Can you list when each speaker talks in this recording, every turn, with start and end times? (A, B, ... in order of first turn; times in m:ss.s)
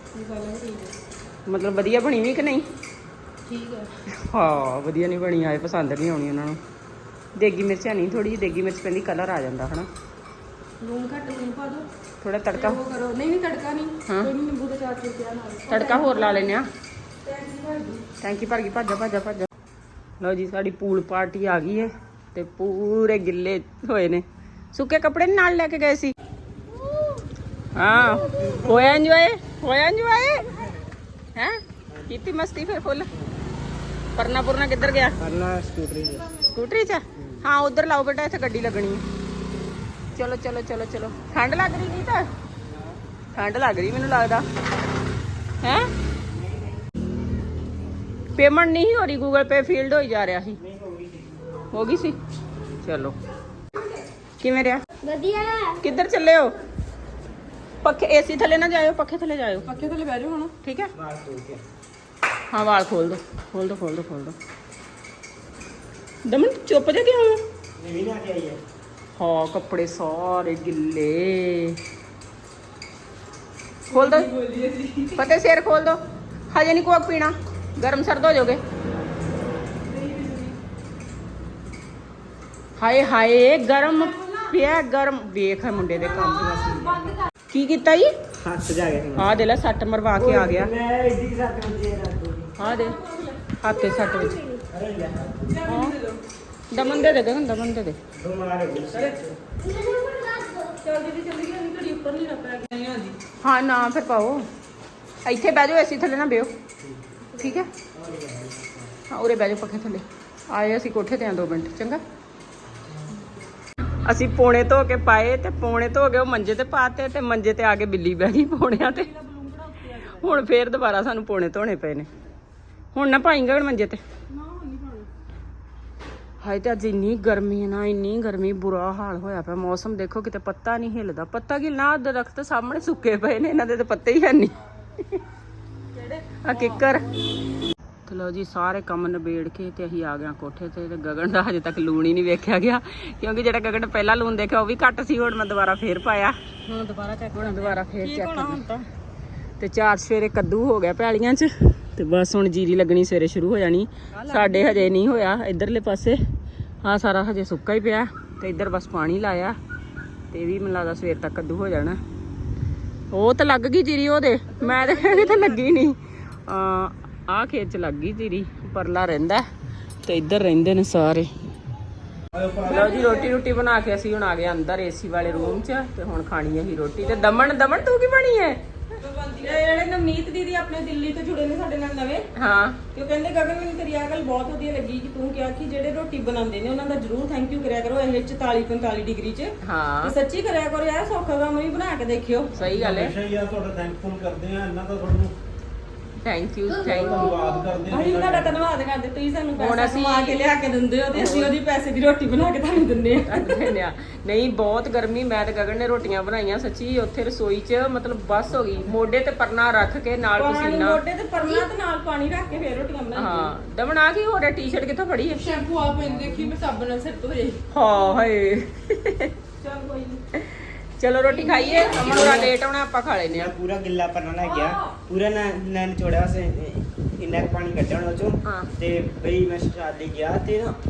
0:00.2-0:00.9 A
0:01.5-0:02.6 B
0:03.5-0:03.9 A
0:04.2-0:06.6 B
0:07.4-0:09.9 B
0:10.8-0:11.9 A
0:12.2-0:12.8 B
0:12.5-0:16.5 A
0:14.1-0:14.3 B
0:15.7-0:16.7 B
0:17.2-0:18.0 A
0:18.2-0:19.5 B
0:20.2-0:26.2 B
0:27.8-0:30.6 B
0:31.4-0:33.1 B
0:34.2-0:35.2 B
0:35.2-0:36.3 C
0:36.4-0:39.0 B
0:40.2-0:42.3 B
0:43.4-0:44.4 B
0:45.6-0:45.9 B
0:46.3-0:46.7 C
0:48.4-0:50.6 B
0:50.6-0:51.5 C
0:51.7-0:52.2 B
0:52.8-0:53.2 B
0:54.4-0:54.8 B
0:55.0-0:55.8 D
0:55.8-0:56.6 B
0:57.8-0:59.7 B
0:59.7-1:00.0 C
0:59.7-1:00.5 A
1:00.6-1:00.9 B
1:00.9-1:01.6 C
1:02.5-1:04.4 B
1:06.3-1:07.4 B
1:07.8-1:08.6 C
1:09.2-1:11.8 B
1:13.9-1:14.3 B
1:14.4-1:14.9 A
1:15.1-1:16.0 B
1:16.5-1:18.6 B
1:20.0-1:20.5 A
1:22.8-1:28.1 B
1:28.4-1:29.4 C
1:29.2-1:30.7 B
1:30.2-1:32.5 C
1:32.6-1:33.0 B
1:32.6-1:33.4 A
1:33.6-1:34.4 B
1:33.8-1:34.2 D
1:34.7-1:35.7 C
1:35.5-1:36.2 A
1:35.7-1:36.0 B
1:36.7-1:38.0 B
1:38.2-1:39.4 C
1:39.7-1:40.8 D
1:39.9-1:43.2 A
1:43.4-1:44.5 B
1:45.2-1:46.5 B
1:47.4-1:47.7 B
1:47.9-1:48.9 C
1:49.1-1:52.0 B
1:54.0-1:59.1 B
1:58.8-2:00.5 A
2:00.2-2:02.1 B
2:02.9-2:04.0 B
2:04.3-2:05.1 A
2:06.4-2:15.2 B
2:15.9-2:17.1 A
2:16.4-2:17.1 B
2:18.1-2:26.4 B
2:26.7-2:28.9 A
2:27.3-2:28.6 B
2:29.6-2:36.2 B
2:34.1-2:34.9 A
2:36.8-2:39.6 B
2:40.3-2:42.0 B
2:43.1-2:49.5 B
2:44.6-2:45.6 A
2:50.0-2:51.3 B
2:52.3-2:52.8 E
2:52.6-2:58.6 B
2:52.6-2:53.3 A
2:55.2-2:55.6 A
2:57.0-2:57.8 A
2:59.0-3:02.2 A
3:02.4-3:02.8 B
3:02.9-3:12.6 A
3:09.6-3:10.2 B
3:12.6-3:13.2 B
3:12.6-3:15.3 E
3:16.2-3:17.3 B
3:16.7-3:17.2 A
3:16.8-3:18.6 E
3:17.2-3:17.8 D
3:17.8-3:23.6 A
3:19.6-3:20.4 B
3:21.1-3:21.6 B
3:23.3-3:31.0 B
3:30.4-3:33.5 A
3:33.2-3:35.4 B
3:35.4-3:37.6 F
3:36.1-3:36.5 B
3:37.7-3:39.3 B
3:39.6-3:40.2 A
3:40.4-3:43.5 B
3:41.4-3:42.3 A
3:41.7-3:42.5 C
3:43.3-3:50.8 C
3:44.4-3:44.8 A
3:48.4-3:48.7 B